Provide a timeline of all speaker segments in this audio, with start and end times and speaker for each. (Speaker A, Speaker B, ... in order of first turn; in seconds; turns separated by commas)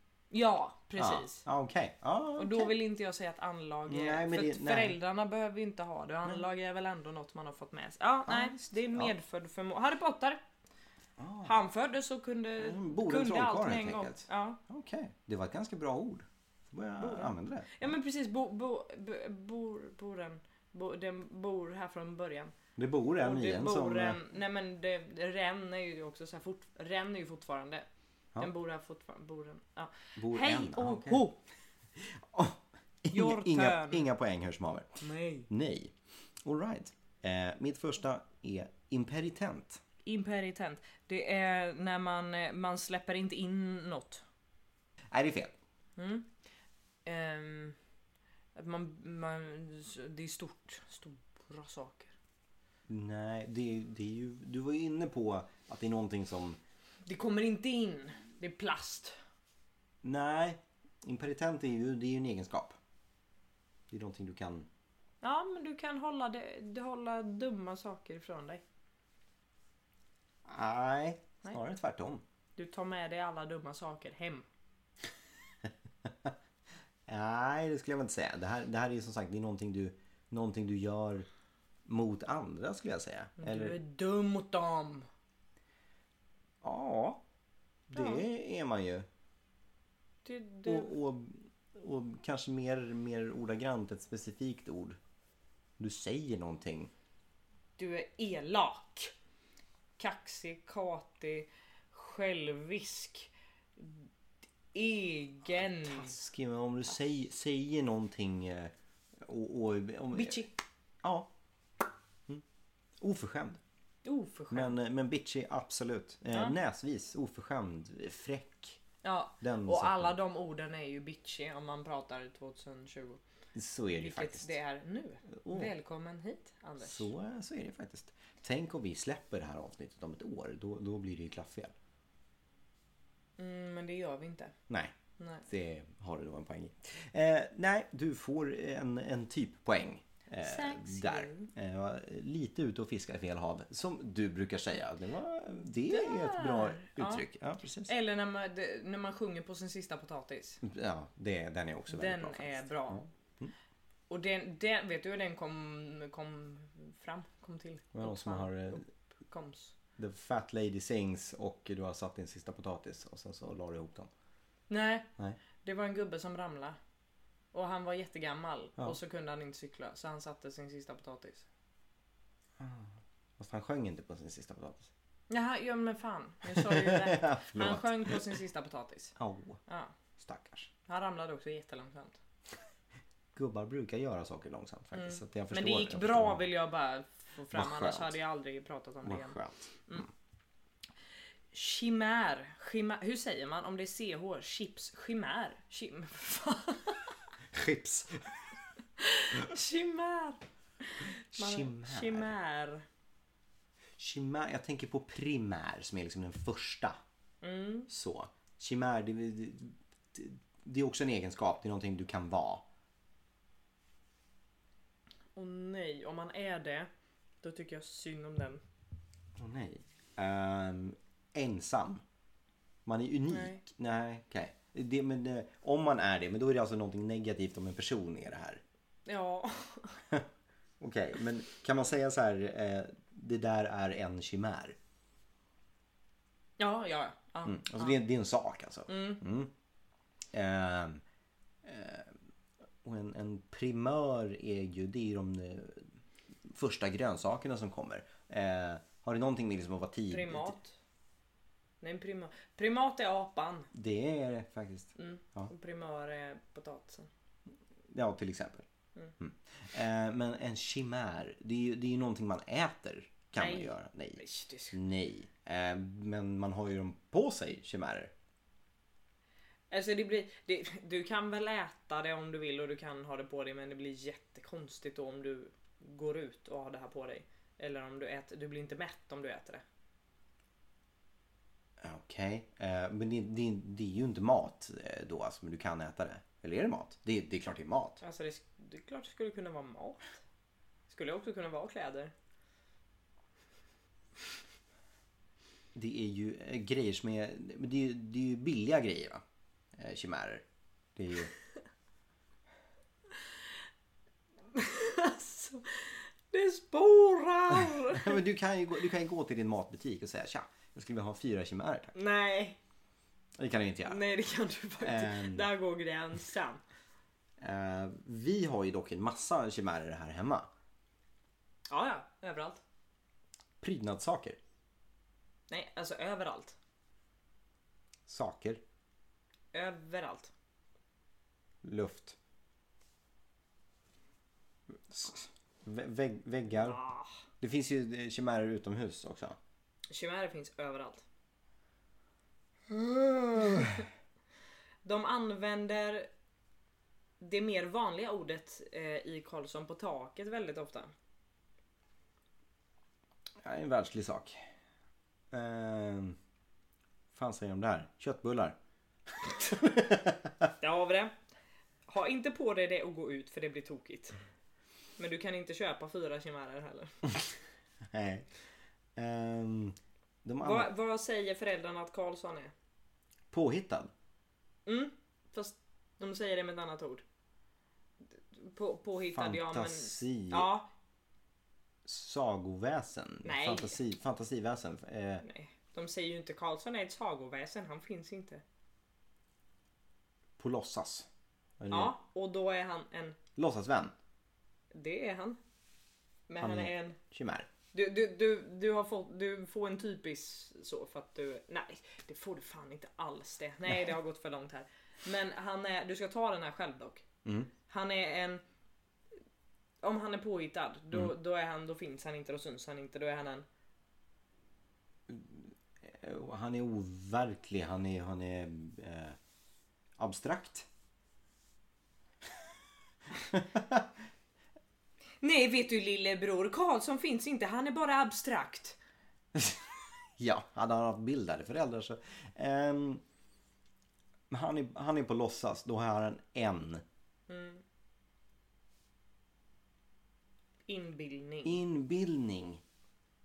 Speaker A: 0.3-1.4, Speaker B: 1.0-2.7, Speaker A: 2.4-10.4, Speaker B: 3.9-5.0, Speaker B: 8.3-9.1, Speaker B: 11.2-11.6, Speaker A: 11.4-14.6, Speaker B: 12.6-17.9, Speaker A: 17.0-22.5, Speaker B: 22.8-24.2, Speaker A: 23.2-27.9, Speaker A: 28.4-31.4, Speaker B: 30.1-31.2, Speaker B: 31.9-39.8, Speaker A: 33.1-34.1, Speaker A: 35.0-35.5, Speaker A: 40.0-44.2, Speaker B: 45.1-45.6, Speaker A: 46.0-46.3, Speaker A: 47.0-47.8, Speaker A: 48.5-52.1, Speaker B: 52.9-56.6, Speaker A: 57.0-59.1, Speaker B: 60.0-62.8, Speaker B: 63.9-64.7, Speaker A: 65.2-68.6, Speaker B: 70.5-72.2, Speaker A: 72.5-74.5, Speaker B: 76.0-76.3, Speaker B: 77.1-81.2, Speaker B: 81.8-83.8, Speaker A: 83.4-85.1, Speaker B: 86.6-87.2, Speaker B: 87.9-89.0, Speaker A: 87.9-88.2, Speaker A: 90.2-90.9, Speaker B: 90.7-95.0, Speaker B: 95.8-96.9, Speaker A: 97.8-99.1, Speaker A: 100.0-104.0, Speaker A: 104.7-106.2, Speaker B: 105.8-110.5, Speaker A: 110.1-110.5, Speaker B: 111.0-111.3, Speaker B: 113.0-113.6, Speaker A: 114.0-114.8, Speaker B: 114.5-118.8, Speaker A: 119.0-123.2, Speaker B: 119.4-120.2, Speaker B: 123.5-124.5, Speaker A: 123.9-127.1, Speaker B: 125.4-125.7, Speaker B: 126.8-131.7, Speaker A: 133.4-134.5, Speaker B: 134.7-134.9, Speaker A: 135.2-135.4, Speaker B: 135.5-147.9, Speaker A: 140.4-141.5, Speaker A: 145.9-147.2, Speaker A: 147.8-150.6, Speaker B: 150.6-153.5, Speaker A: 151.9-153.0, Speaker A: 154.1-159.7, Speaker B: 157.9-158.8, Speaker B: 160.0-164.1, Speaker A: 164.7-166.8, Speaker A: 167.5-171.4, Speaker B: 172.6-174.9, Speaker A: 175.3-179.2, Speaker B: 176.4-178.3, Speaker B: 179.2-179.6, Speaker A: 179.7-179.9, Speaker B: 180.2-180.7, Speaker A: 180.8-182.2, Speaker B: 183.3-186.4, Speaker A: 184.9-190.1, Speaker B: 187.5-188.2, Speaker B: 189.0-190.0, Speaker A: 191.5-197.2, Speaker B: 197.5-198.5, Speaker A: 199.0-202.8, Speaker B: 201.3-202.3, Speaker B: 204.0-207.0, Speaker A: 207.4-207.9, Speaker B: 207.9-212.6, Speaker A: 215.3-216.9, Speaker A: 217.4-218.6, Speaker B: 219.4-222.0, Speaker B: 222.8-228.6, Speaker A: 223.3-223.6, Speaker A: 229.1-230.0, Speaker B: 230.8-234.8, Speaker A: 236.6-238.0, Speaker B: 237.4-239.5, Speaker A: 238.9-239.2, Speaker B: 240.3-241.0, Speaker B: 241.6-242.1, Speaker B: 242.8-245.9, Speaker B: 246.4-250.6, Speaker A: 250.1-250.8, Speaker A: 251.8-253.7, Speaker B: 253.7-255.5, Speaker A: 254.9-257.1, Speaker B: 257.9-258.6, Speaker B: 259.2-268.1, Speaker A: 263.4-264.8, Speaker A: 269.7-279.6, Speaker B: 281.8-288.0, Speaker A: 288.0-290.1, Speaker A: 290.9-292.1, Speaker B: 295.7-299.2, Speaker B: 299.7-300.4, Speaker B: 300.9-301.3, Speaker A: 304.5-308.2, Speaker B: 307.5-311.9, Speaker A: 311.9-312.6, Speaker B: 313.4-314.0, Speaker A: 313.9-316.6, Speaker B: 314.8-315.5, Speaker B: 317.4-320.5, Speaker A: 321.7-322.6, Speaker B: 323.6-324.4, Speaker A: 325.5-326.6, Speaker B: 328.1-328.6, Speaker A: 329.5-330.3, Speaker B: 331.6-332.2, Speaker B: 334.9-336.8, Speaker A: 336.5-337.1, Speaker B: 337.4-339.4, Speaker A: 339.9-341.0, Speaker B: 342.7-343.8, Speaker A: 343.4-343.7, Speaker A: 344.8-346.1, Speaker A: 347.2-350.9, Speaker B: 353.4-354.5, Speaker B: 355.3-356.2, Speaker B: 357.1-358.6, Speaker B: 359.1-360.5, Speaker A: 360.6-361.1, Speaker A: 361.9-364.1, Speaker A: 365.0-366.9, Speaker B: 367.9-368.3, Speaker B: 368.9-370.7, Speaker A: 370.4-372.5, Speaker B: 373.3-373.9, Speaker A: 374.6-377.0, Speaker A: 378.1-380.7, Speaker B: 379.1-380.5, Speaker B: 381.8-385.2, Speaker A: 383.2-383.8, Speaker A: 385.2-388.4, Speaker B: 390.4-391.1, Speaker B: 391.6-391.9, Speaker A: 391.7-393.2, Speaker B: 393.4-393.9, Speaker A: 394.7-395.4, Speaker A: 396.3-397.0, Speaker B: 396.4-397.5, Speaker A: 397.7-407.1, Speaker B: 407.2-407.5, Speaker A: 407.7-408.4, Speaker A: 409.8-413.4, Speaker B: 415.1-419.2, Speaker B: 420.0-420.7, Speaker B: 423.1-424.0, Speaker A: 425.2-428.8, Speaker B: 429.3-433.0, Speaker B: 434.3-436.8, Speaker A: 437.3-437.6, Speaker A: 440.7-441.6, Speaker B: 441.4-442.6